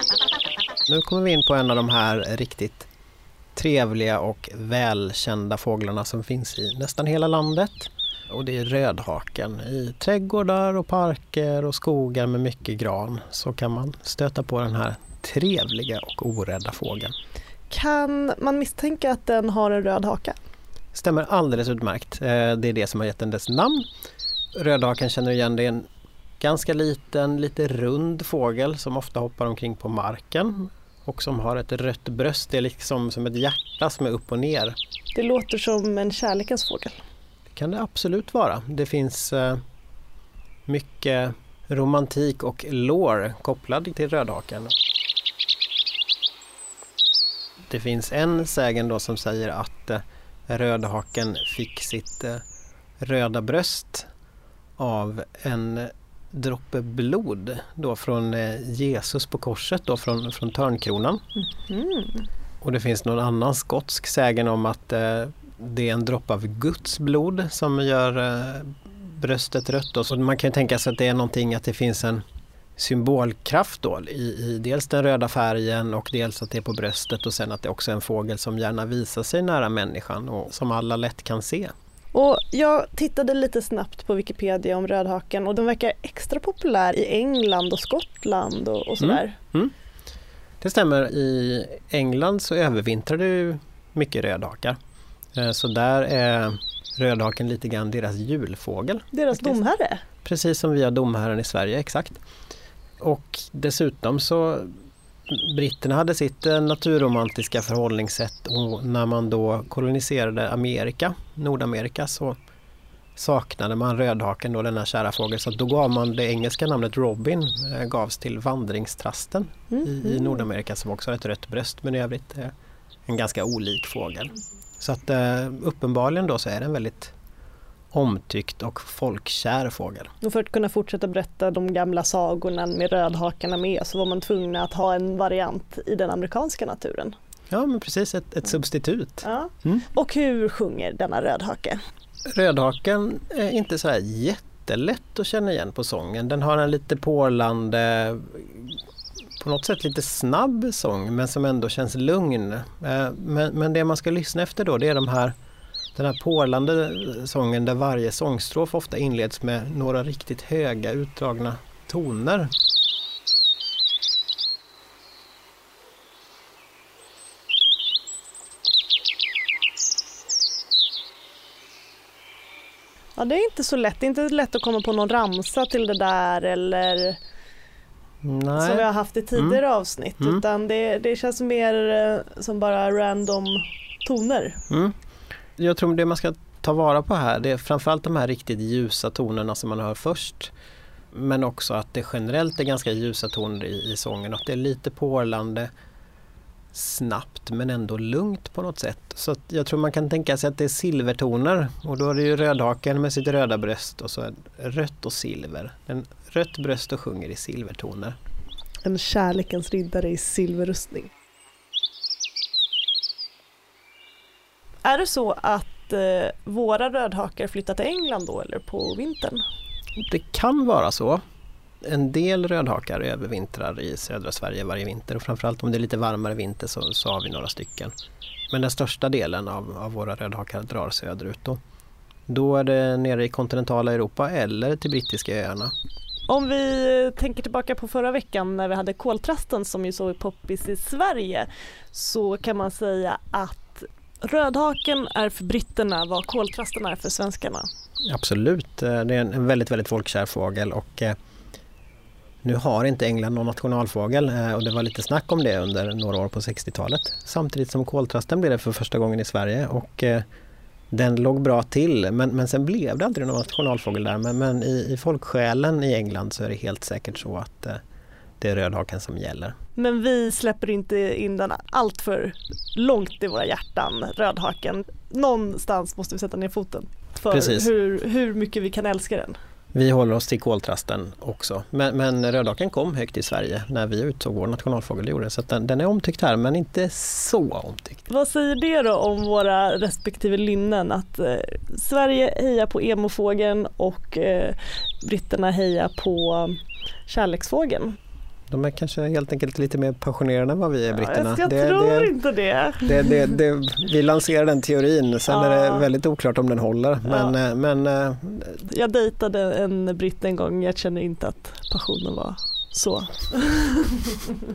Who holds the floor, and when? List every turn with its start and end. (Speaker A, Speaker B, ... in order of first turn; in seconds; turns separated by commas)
Speaker A: 0.9-2.9, Speaker A: 3.6-17.1, Speaker B: 17.7-20.4, Speaker A: 20.9-23.9, Speaker A: 24.6-25.9, Speaker A: 26.4-34.8, Speaker B: 35.1-36.9, Speaker A: 37.5-39.6, Speaker A: 40.7-44.7, Speaker A: 47.7-52.4, Speaker A: 53.0-54.1, Speaker A: 54.8-61.2, Speaker B: 61.5-62.3, Speaker A: 62.6-72.2, Speaker A: 72.8-81.7, Speaker B: 82.1-89.4, Speaker A: 89.0-89.7, Speaker A: 90.6-94.8, Speaker A: 95.4-99.6, Speaker B: 99.1-100.0, Speaker A: 100.2-102.2, Speaker A: 103.0-104.7, Speaker A: 105.3-112.3, Speaker A: 113.2-122.5, Speaker A: 123.1-127.1, Speaker A: 127.9-130.1, Speaker B: 130.2-137.2, Speaker A: 137.5-139.8, Speaker B: 139.2-141.8, Speaker A: 142.3-148.8, Speaker A: 149.4-155.3, Speaker A: 155.9-162.5, Speaker B: 173.2-177.2, Speaker A: 178.2-179.6, Speaker B: 178.6-184.6, Speaker A: 184.7-184.9, Speaker A: 185.6-190.5, Speaker A: 191.1-195.7, Speaker A: 196.7-208.2, Speaker B: 208.8-211.1, Speaker B: 214.8-219.4, Speaker A: 220.0-221.2, Speaker A: 221.8-227.9, Speaker A: 228.5-231.6, Speaker A: 232.3-235.7, Speaker B: 236.3-247.7, Speaker A: 248.1-251.2, Speaker A: 252.4-260.2, Speaker A: 260.9-267.8, Speaker A: 268.4-269.6, Speaker B: 269.8-279.4, Speaker A: 277.3-277.7, Speaker A: 279.7-288.1, Speaker B: 288.1-297.9, Speaker A: 298.5-302.1, Speaker B: 300.9-302.9, Speaker A: 302.8-308.6, Speaker B: 305.3-305.9, Speaker B: 307.1-307.4, Speaker B: 308.7-314.3